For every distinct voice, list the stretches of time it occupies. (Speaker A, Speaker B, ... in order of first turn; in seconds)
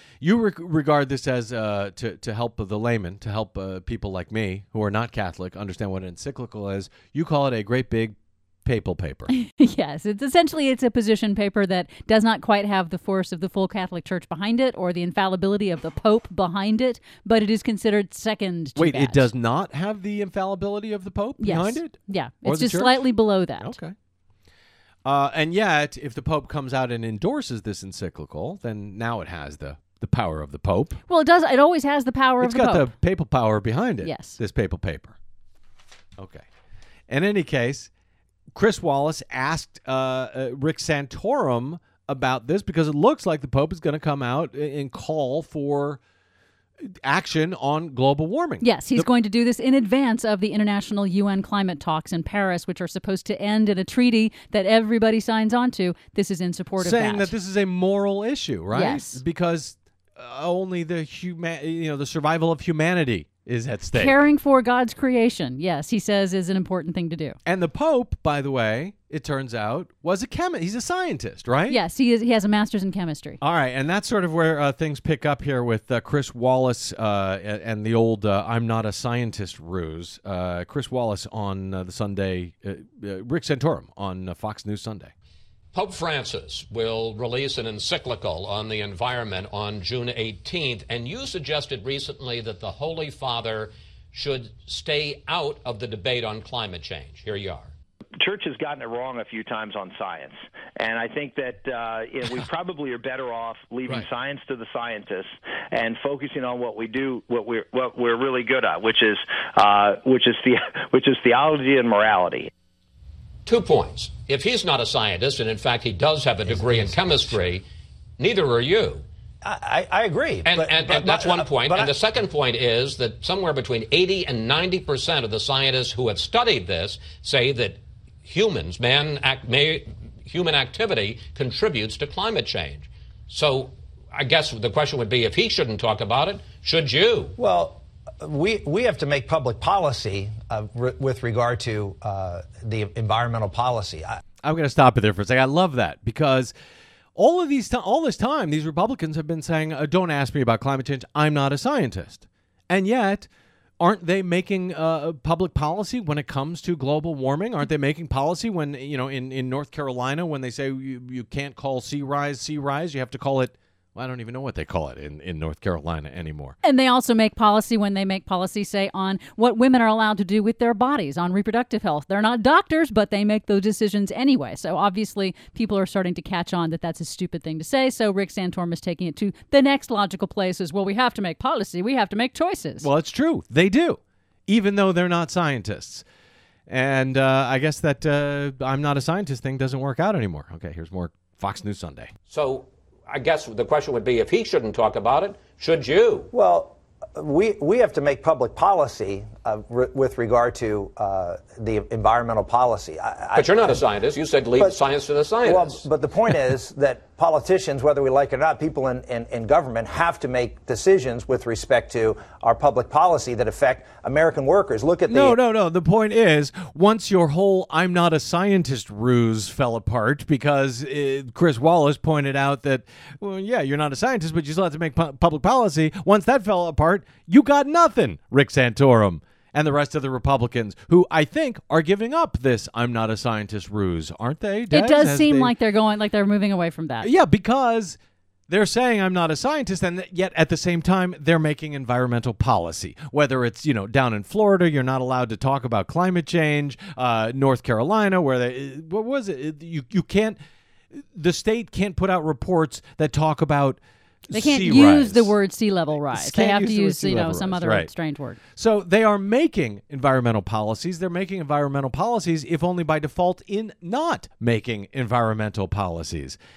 Speaker A: 0.2-9.3, 18.8-23.1, 23.6-23.9, 25.1-31.0, 32.4-35.1, 36.2-36.5, 37.1-37.9, 38.5-46.0, 46.8-49.1, 56.8-64.2, 67.5-71.8, 73.4-85.1, 144.4-146.5, 147.2-153.3, 153.8-166.6, 182.8-186.1, 186.7-192.1, 215.1-235.5, 237.0-250.4, 250.9-255.3, 256.1-257.9, 258.6-266.4
Speaker B: 9.3-19.3, 21.4-23.7, 31.1-32.9, 34.0-34.4, 48.6-57.3, 58.7-59.2, 63.9-67.4, 71.7-73.4, 166.6-182.9, 234.7-237.1, 254.3-258.4
Speaker C: 85.7-97.7, 113.5-117.6, 118.2-119.0, 120.5-137.3, 192.3-196.3, 203.3-205.8
Speaker D: 98.2-112.5
Speaker E: 119.4-121.9, 137.4-144.2, 196.3-203.8, 205.4-215.4